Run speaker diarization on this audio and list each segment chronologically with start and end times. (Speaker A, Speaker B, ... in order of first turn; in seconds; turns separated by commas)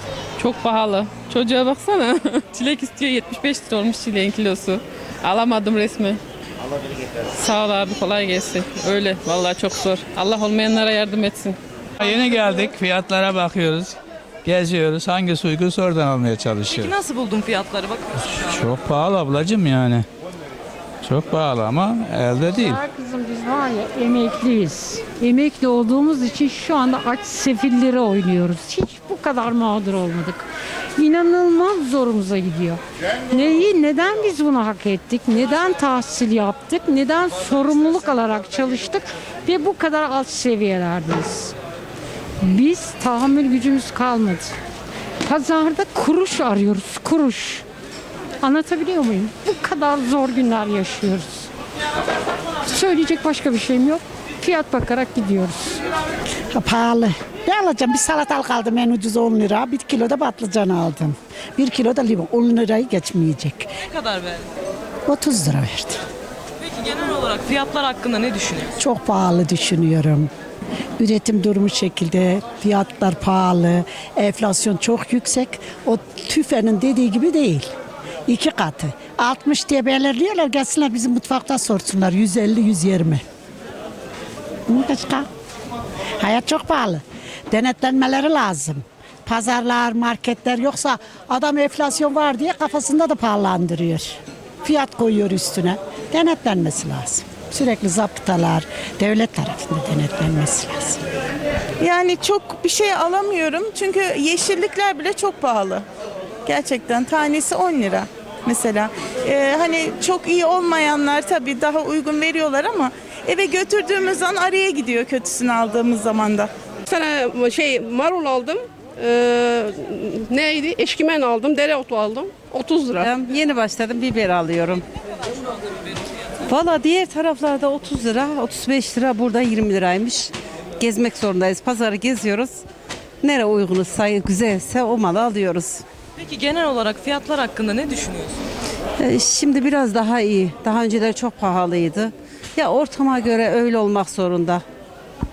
Speaker A: 0.4-6.2, Speaker A: 7.3-11.6, Speaker B: 12.0-16.9, Speaker C: 16.7-18.4, Speaker B: 18.3-20.1, Speaker B: 21.0-22.8, Speaker D: 22.5-41.5, Speaker D: 42.4-44.5, Speaker D: 45.2-47.6, Speaker D: 48.4-51.5, Speaker D: 52.7-55.8, Speaker E: 56.5-63.7, Speaker C: 63.9-64.5, Speaker E: 65.1-66.0, Speaker C: 66.6-68.7, Speaker E: 68.8-70.3, Speaker E: 71.0-77.7, Speaker E: 78.3-83.2, Speaker E: 84.7-85.3, Speaker E: 86.2-101.0, Speaker F: 101.8-105.8, Speaker F: 106.5-116.5, Speaker G: 116.8-123.1, Speaker H: 123.0-124.8, Speaker H: 126.4-132.6, Speaker H: 133.2-135.8, Speaker C: 136.2-138.4, Speaker H: 139.0-144.6